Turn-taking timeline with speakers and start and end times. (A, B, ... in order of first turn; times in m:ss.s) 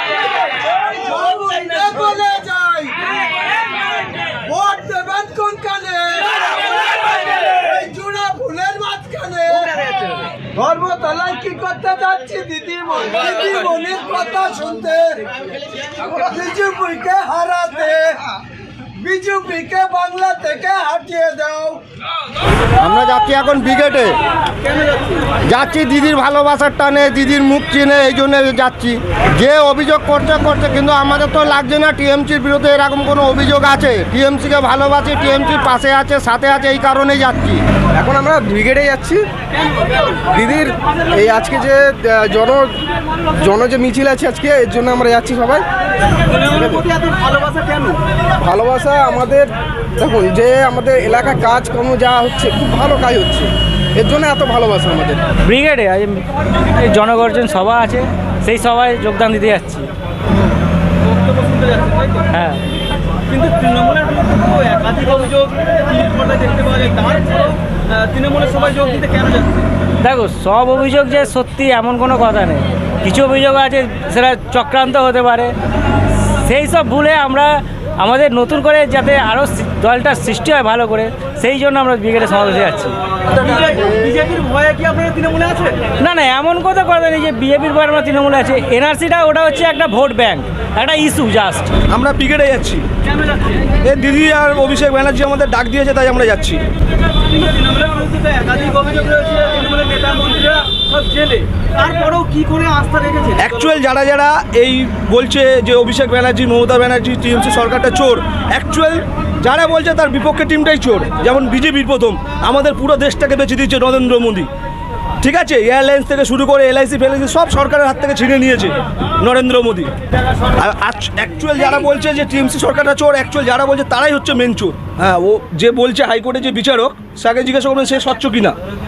0:00.9-0:02.9 A
0:04.5-0:09.7 A
0:10.4-0:15.2 A
0:16.0-0:18.1 A
0:19.0-0:21.8 A
0:22.8-0:24.2 B
0:25.4-0:37.6 B
0:38.0-0:39.3 C
0:40.2-0:45.7 C
0:46.3-0:46.9 C
0:47.2-0:48.0 D
0:48.4-0:55.2 C
0:55.4-0:59.9 E
1:01.3-1:02.2 D
1:02.3-1:02.6 E
1:03.3-1:09.7 D
1:10.0-1:15.5 E
1:16.3-1:23.0 E
1:23.3-1:25.8 D
1:26.0-1:31.7 E
1:31.9-1:32.9 F
1:33.8-1:36.6 F
1:37.3-1:43.4 D
1:43.4-1:54.5 F
1:55.2-1:59.9 F
2:00.6-2:08.6 F